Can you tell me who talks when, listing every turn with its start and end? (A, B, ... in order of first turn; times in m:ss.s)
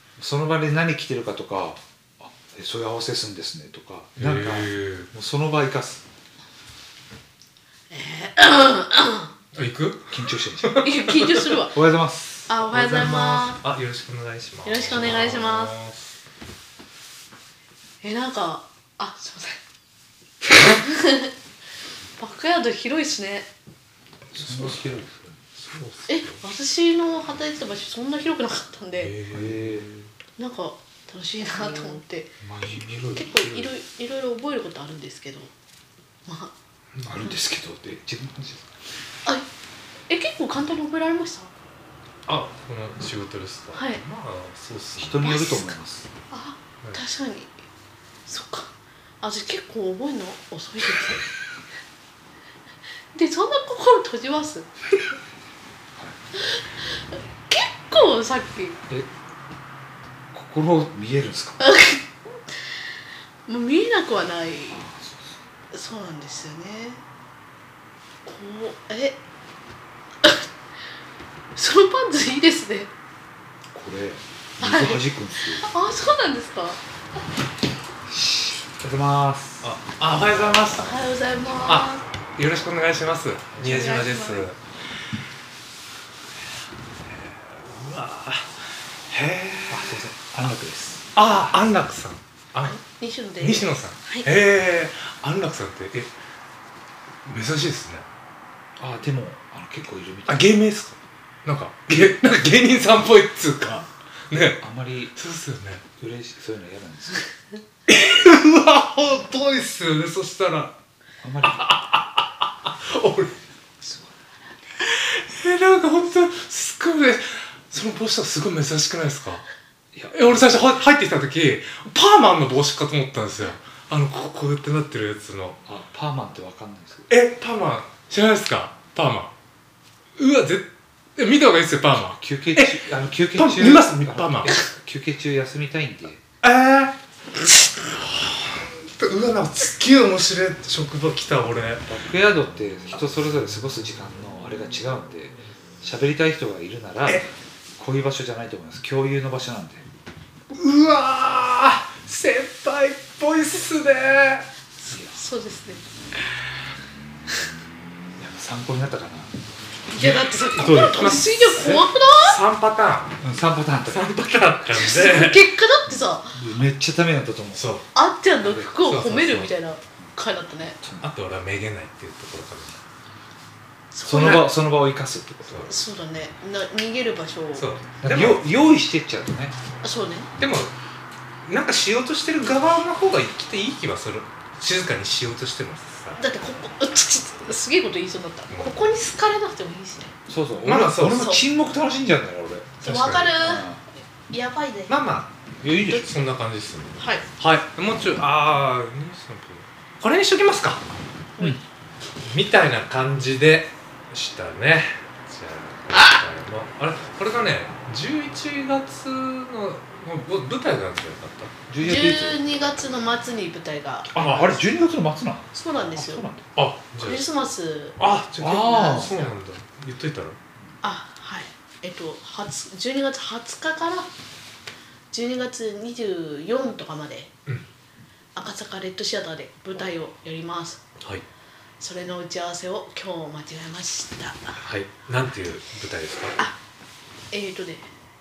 0:00.2-0:06.0 A
0:04.2-0:05.1 B
0:07.9-0:09.3 C
0:09.5-0:11.6 B
0:10.1-0:10.8 A
0:10.8-0:11.8 C
0:11.7-0:12.5 A
0:12.5-0:13.6 C
0:12.6-0:16.1 B
0:14.6-0:15.7 C
0:18.0-0:19.6 C
0:20.5-0:21.3 C
0:22.2-0:23.5 C
0:24.3-0:25.4 A
0:24.4-0:25.0 B
0:25.5-0:26.4 B
0:26.1-0:29.1 C
0:29.0-0:30.1 B
0:29.3-0:29.9 A
0:30.4-0:32.4 C
0:32.4-0:33.7 A
0:33.1-0:35.5 C
0:36.3-0:36.5 C
0:37.0-0:38.7 A
0:40.1-0:41.5 C
0:42.2-0:45.3 B
0:43.7-0:44.0 C
0:45.0-0:46.1 A
0:45.2-0:45.8 C
0:46.3-0:47.5 C
0:48.3-0:48.7 C
0:49.2-0:51.2 C
0:53.1-0:54.7 C
0:56.4-0:58.8 C
1:00.3-1:01.6 A
1:01.6-1:02.2 C
1:03.5-1:04.8 C
1:04.7-1:05.4 A
1:05.7-1:07.0 C
1:08.2-1:09.2 C
1:11.6-1:12.9 C
1:13.7-1:15.7 A
1:14.6-1:16.8 C
1:18.1-1:19.7 A
1:19.6-1:20.9 B
1:20.8-1:22.0 C
1:21.6-1:24.6 B
1:23.6-1:24.0 A
1:23.6-1:24.5 C
1:27.2-1:30.0 B
1:29.7-1:31.1 A
1:31.1-1:32.8 B
1:32.6-1:34.3 C
1:33.4-1:36.1 B
1:37.2-1:38.0 B
1:38.8-1:40.5 A
1:40.3-1:44.6 B
1:44.6-1:45.1 A
1:45.1-1:45.8 B
1:46.0-1:47.3 A
1:47.9-1:50.7 B
1:51.2-1:51.6 A
1:51.4-1:53.3 B
1:54.8-1:59.4 B
1:59.9-2:00.6 A
2:00.1-2:05.6 B
2:05.6-2:07.1 A
2:07.1-2:09.3 B
2:10.2-2:12.8 B
2:12.1-2:16.2 A
2:13.3-2:14.6 B
2:16.4-2:16.9 B
2:17.9-2:21.8 B
2:21.8-2:29.8 A
2:30.5-2:34.5 B
2:34.8-2:35.8 C
2:34.9-2:35.2 A
2:38.2-2:39.3 A
2:39.9-2:42.4 C
2:40.0-2:43.2 B
2:40.5-2:41.8 A
2:43.2-2:44.1 A
2:43.8-2:45.5 B
2:44.7-2:46.4 C
2:45.9-2:47.7 A
2:47.5-2:47.9 B
2:47.9-2:50.8 C
2:48.4-2:49.5 B
2:50.8-2:51.1 A
2:51.0-2:52.8 B
2:53.9-2:54.5 C
2:54.0-2:55.7 A
2:54.1-2:54.5 B
2:55.6-2:57.7 C
2:57.6-2:58.5 B
2:58.0-2:59.6 A
2:59.8-3:00.3 C
3:00.4-3:00.7 B
3:01.4-3:06.2 B
3:06.2-3:10.1 C
3:08.5-3:08.8 B
3:10.3-3:12.8 A
3:10.6-3:11.4 B
3:11.1-3:11.4 C
3:12.8-3:13.7 C
3:12.8-3:13.6 B
3:13.4-3:13.8 A
3:14.3-3:14.9 C
3:14.9-3:20.9 B
3:15.6-3:16.1 A
3:17.0-3:17.2 C
3:21.4-3:21.6 C
3:22.2-3:31.5 B
3:31.7-3:32.6 A
3:31.8-3:34.3 C
3:34.1-3:36.4 A
3:34.2-3:34.6 B
3:35.5-3:36.3 C
3:36.6-3:37.3 B
3:37.0-3:38.0 C
3:38.0-3:40.4 B
3:38.4-3:39.3 A
3:38.6-3:39.1 C
3:40.8-3:44.1 C
3:45.1-3:47.3 C
3:48.3-3:50.8 C
3:51.8-3:54.6 C
3:54.6-3:56.4 B
3:57.3-3:57.8 C